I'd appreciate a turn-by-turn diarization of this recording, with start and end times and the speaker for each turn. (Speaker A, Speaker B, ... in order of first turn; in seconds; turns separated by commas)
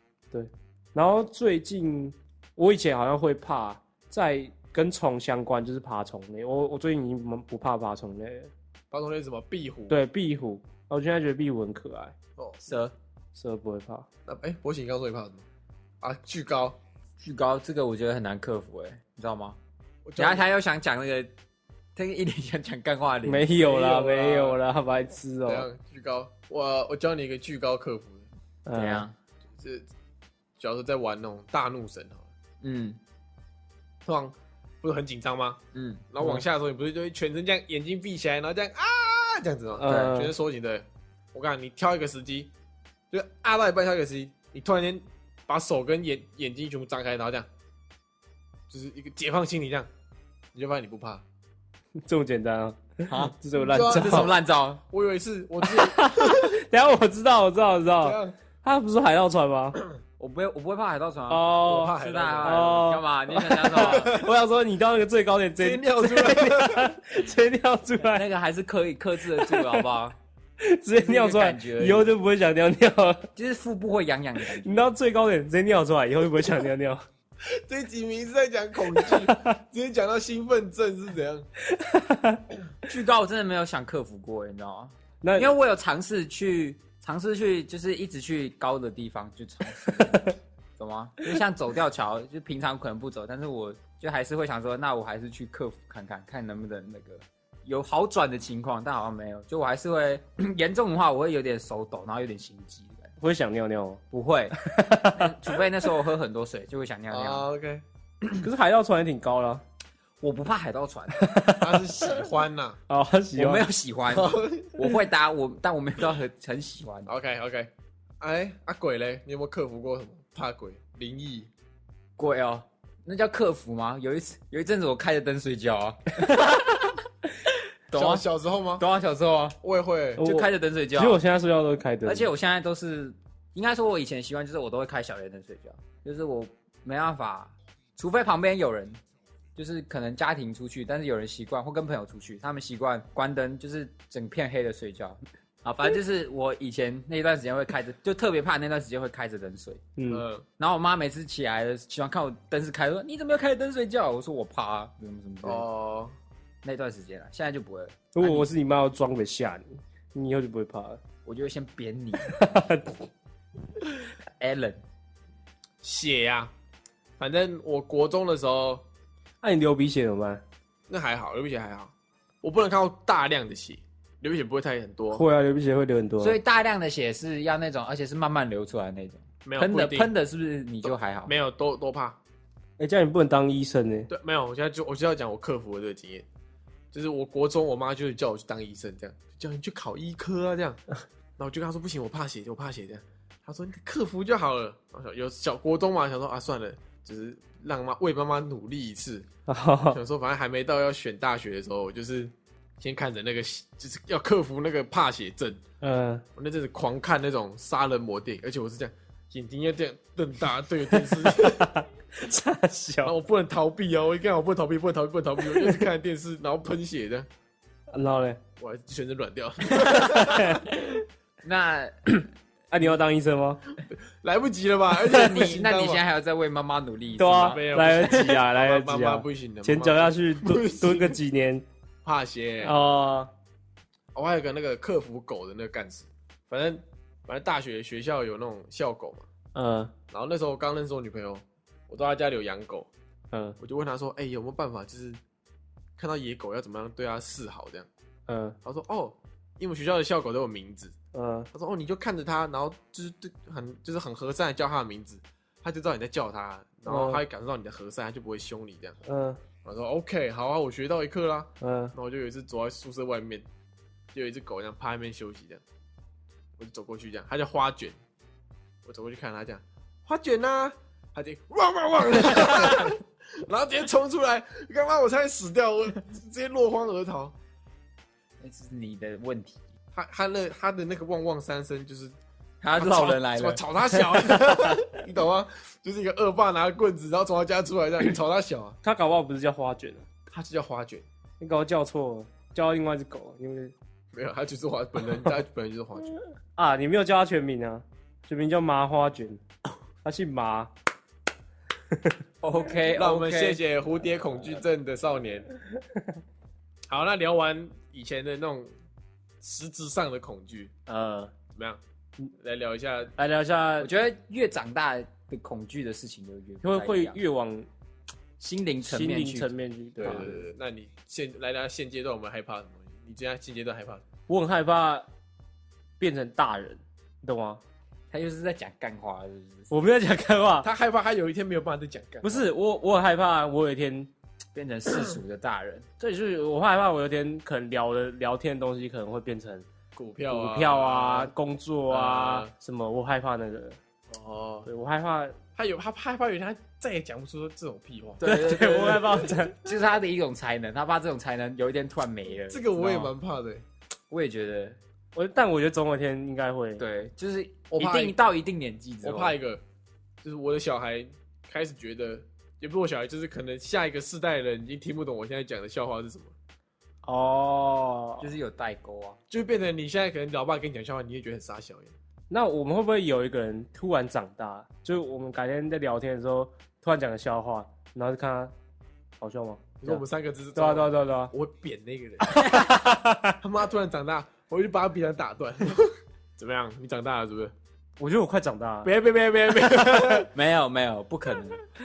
Speaker A: 0.3-8.5, Speaker B: 8.9-10.0, Speaker A: 9.9-12.1, Speaker C: 12.6-12.9, Speaker A: 13.3-14.1, Speaker B: 14.2-15.4, Speaker B: 16.0-16.8, Speaker C: 17.2-19.6, Speaker B: 20.1-20.5, Speaker C: 20.1-21.3, Speaker C: 21.9-23.5, Speaker A: 23.3-25.7, Speaker B: 23.6-24.6, Speaker B: 25.4-28.3, Speaker A: 28.6-29.1, Speaker C: 28.7-29.1, Speaker B: 29.6-29.9, Speaker B: 30.6-32.3, Speaker C: 32.6-33.0, Speaker B: 34.0-35.6, Speaker C: 35.7-36.0, Speaker B: 36.1-42.5, Speaker A: 39.8-40.3, Speaker C: 39.9-40.2, Speaker B: 43.1-47.5, Speaker B: 48.7-49.9, Speaker B: 50.5-51.2, Speaker A: 52.0-54.3, Speaker C: 53.1-54.8, Speaker B: 53.6-54.4, Speaker B: 54.9-56.6, Speaker A: 55.6-59.8, Speaker B: 58.0-58.3, Speaker C: 60.2-64.2, Speaker A: 61.3-68.2, Speaker B: 61.6-62.8, Speaker B: 63.9-64.3, Speaker B: 65.6-66.9, Speaker C: 68.0-70.2, Speaker A: 69.3-69.8, Speaker A: 70.6-73.3, Speaker C: 70.9-72.1, Speaker C: 73.4-74.9, Speaker A: 74.6-77.0, Speaker B: 77.4-81.5, Speaker A: 78.9-79.6, Speaker A: 81.6-82.4, Speaker C: 82.8-103.1, Speaker A: 85.2-85.5, Speaker A: 89.9-90.3, Speaker A: 103.2-104.0, Speaker C: 104.1-107.5, Speaker A: 104.5-105.6, Speaker B: 107.1-108.5, Speaker A: 108.4-109.6, Speaker C: 110.2-111.3, Speaker A: 111.1-112.3, Speaker B: 111.6-112.8, Speaker A: 112.9-113.7, Speaker C: 113.4-117.1, Speaker B: 114.1-114.8, Speaker B: 117.1-121.5, Speaker C: 122.2-126.9, Speaker C: 127.5-128.2, Speaker B: 127.9-128.8, Speaker C: 128.8-129.6, Speaker B: 129.6-130.2, Speaker A: 130.2-132.3, Speaker C: 130.2-131.2, Speaker C: 132.1-139.0, Speaker C: 139.6-149.8, Speaker A: 150.0-150.3, Speaker B: 150.1-150.4, Speaker C: 150.6-155.7, Speaker B: 155.4-156.1, Speaker C: 156.6-158.5, Speaker A: 158.1-161.0, Speaker C: 161.2-162.4, Speaker A: 162.2-163.1, Speaker C: 164.4-164.8, Speaker B: 165.8-166.5, Speaker B: 167.2-168.8, Speaker A: 169.4-170.4, Speaker B: 170.9-175.2, Speaker A: 175.1-176.4, Speaker C: 176.2-181.3, Speaker B: 179.4-180.1, Speaker B: 180.8-182.2, Speaker A: 182.8-184.1, Speaker B: 184.1-186.3, Speaker B: 186.9-190.8, Speaker B: 191.4-199.3, Speaker A: 199.5-200.0, Speaker B: 199.9-205.6, Speaker A: 205.8-206.2, Speaker B: 206.4-211.7, Speaker A: 210.9-213.1, Speaker B: 213.0-217.3, Speaker A: 215.5-215.9, Speaker A: 217.9-218.4, Speaker B: 218.6-220.6, Speaker A: 219.8-220.6, Speaker C: 221.4-221.9, Speaker A: 222.7-223.6, Speaker B: 223.9-226.0, Speaker C: 225.1-228.3, Speaker A: 225.1-225.4, Speaker A: 227.2-231.6, Speaker B: 227.5-231.2, Speaker B: 232.0-232.7, Speaker A: 232.6-233.3, Speaker B: 234.1-239.3, Speaker A: 239.6-239.9, Speaker B: 240.1-242.9, Speaker A: 243.3-243.6, Speaker B: 243.6-245.2, Speaker B: 246.0-247.9, Speaker A: 248.3-248.6, Speaker B: 248.6-250.9, Speaker A: 251.1-251.5, Speaker B: 251.5-259.0, Speaker A: 256.9-257.2, Speaker A: 259.1-259.4, Speaker B: 259.6-263.5, Speaker A: 261.6-261.9, Speaker B: 264.1-265.6, Speaker B: 266.6-268.0, Speaker B: 268.8-277.3, Speaker C: 278.4-279.7, Speaker B: 279.9-282.1, Speaker C: 282.6-284.7, Speaker B: 282.8-288.8, Speaker A: 288.8-290.1, Speaker B: 290.3-291.1, Speaker A: 291.4-293.7, Speaker B: 294.1-296.1, Speaker A: 296.6-299.4, Speaker A: 300.0-300.7, Speaker A: 301.9-302.2, Speaker C: 302.4-303.6, Speaker B: 302.9-305.5, Speaker B: 306.9-308.7, Speaker B: 309.4-310.7, Speaker A: 310.9-311.3, Speaker B: 311.5-311.8, Speaker B: 312.4-313.1, Speaker A: 313.2-313.9, Speaker C: 313.8-317.2, Speaker A: 316.6-317.7, Speaker C: 318.4-320.3, Speaker A: 318.8-320.4, Speaker B: 320.0-324.0, Speaker A: 324.3-325.1, Speaker A: 326.0-327.6, Speaker C: 328.1-329.7, Speaker A: 329.7-330.7, Speaker B: 330.6-332.5, Speaker A: 332.2-334.1, Speaker C: 334.6-335.9, Speaker A: 336.0-339.6, Speaker B: 339.9-341.3, Speaker A: 340.3-343.8, Speaker B: 341.9-342.5, Speaker B: 344.1-344.7, Speaker A: 344.7-345.4, Speaker B: 345.6-348.3, Speaker C: 348.2-353.1, Speaker A: 348.2-349.6, Speaker B: 352.5-353.6, Speaker C: 354.1-354.8, Speaker A: 355.1-356.8, Speaker C: 356.8-359.4, Speaker B: 357.7-358.1, Speaker B: 359.0-359.6, Speaker B: 360.2-366.3, Speaker A: 367.0-368.3, Speaker C: 368.2-369.2, Speaker B: 369.3-371.9, Speaker A: 372.3-378.5, Speaker A: 379.2-380.0, Speaker B: 379.8-382.6, Speaker A: 380.6-381.3, Speaker A: 382.4-383.4, Speaker C: 382.4-382.7, Speaker B: 383.4-387.5, Speaker A: 388.0-388.9, Speaker B: 388.8-390.3, Speaker C: 390.3-391.6